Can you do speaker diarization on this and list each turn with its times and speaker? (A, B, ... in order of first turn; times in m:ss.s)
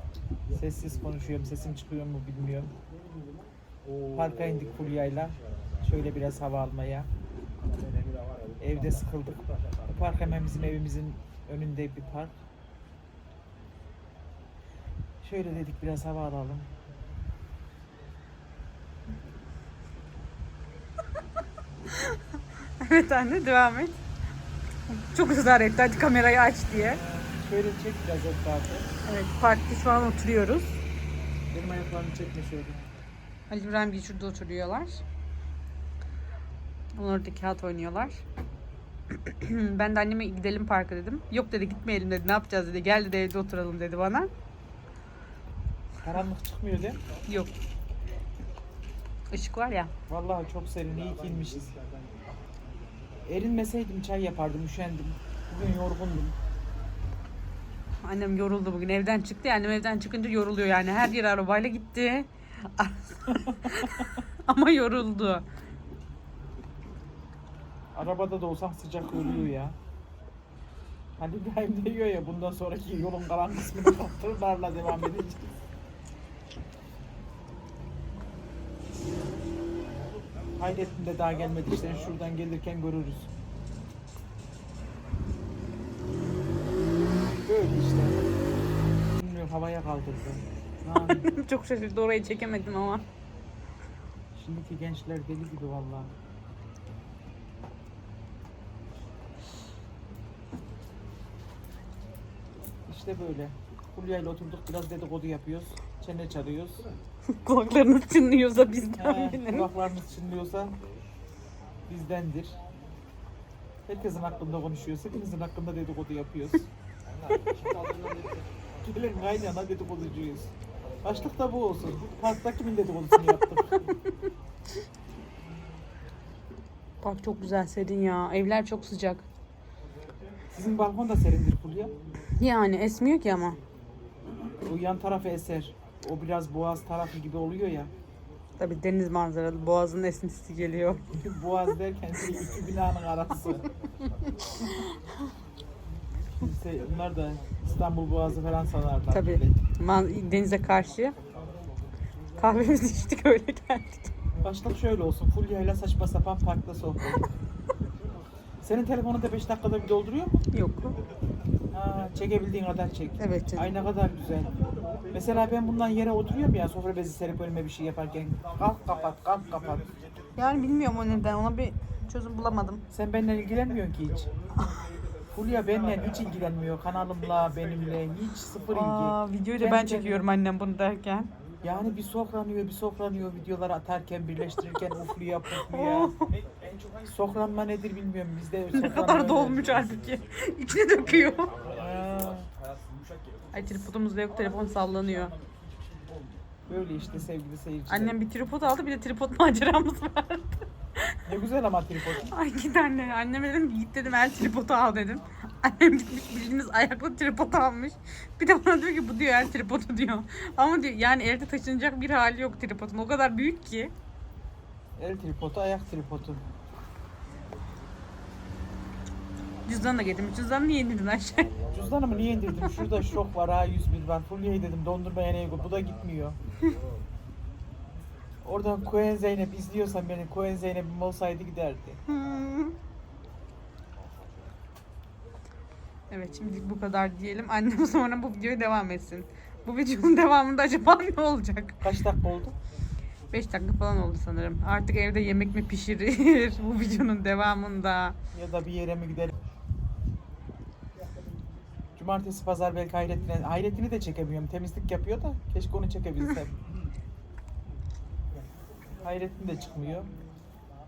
0:00.5-0:02.7 A
0:04.1-0:07.1 A
0:08.6-0:12.3 A
0:15.2-0:16.7 A
0:21.9-0:22.2 B
0:22.8-0:24.0 B
0:24.9-0:27.0 B
0:26.8-0:28.9 A
0:29.0-0:30.8 B
0:31.5-0:32.8 A
0:33.5-0:35.0 B
0:36.9-0:38.2 B
0:39.2-0:44.3 B
0:46.0-0:47.0 A
0:47.3-0:47.5 B
0:49.3-0:49.9 B
0:50.1-0:51.7 A
0:53.3-0:56.4 A
0:58.0-1:05.4 B
1:07.9-1:09.8 A
1:11.2-1:15.5 A
1:20.6-1:23.3 A
1:27.4-1:28.3 A
1:29.1-1:31.2 A
1:31.0-1:33.0 B
1:34.3-1:36.1 A
1:42.9-1:46.8 A
1:47.4-1:49.7 B
1:49.0-1:50.7 A
1:51.9-1:52.6 A
1:53.9-1:56.7 A
1:58.8-2:00.5 A
2:01.0-2:03.8 A
2:07.0-2:09.2 B
2:10.5-2:11.9 A
2:12.4-2:13.6 B
2:14.6-2:17.9 A
2:18.6-2:21.0 B
2:21.1-2:23.6 A
2:24.4-2:24.9 B
2:26.4-2:29.6 A
2:29.1-2:31.2 B
2:32.4-2:34.1 B
2:34.4-2:37.3 A
2:38.6-2:40.3 A
2:40.5-2:41.0 B
2:41.7-2:44.5 A
2:43.2-2:43.7 B
2:45.1-2:49.9 A
2:50.4-2:52.8 B
2:52.9-2:54.3 A
2:55.3-3:00.2 A
2:58.7-3:01.3 B
3:01.6-3:06.1 A
3:05.6-3:06.3 B
3:07.0-3:09.6 A
3:08.7-3:11.6 B
3:11.7-3:12.5 A
3:13.5-3:15.3 B
3:16.7-3:18.1 A
3:17.9-3:21.1 B
3:21.2-3:22.3 A
3:22.3-3:33.9 B
3:35.0-3:36.4 A
3:39.6-3:41.5 B
3:41.7-3:46.4 A
3:48.4-3:52.0 A
3:52.1-3:52.7 B
3:56.1-4:01.8 B
4:01.8-4:02.6 A
4:03.3-4:08.2 B
4:08.3-4:09.3 A
4:12.0-4:16.5 A
4:19.0-4:20.1 A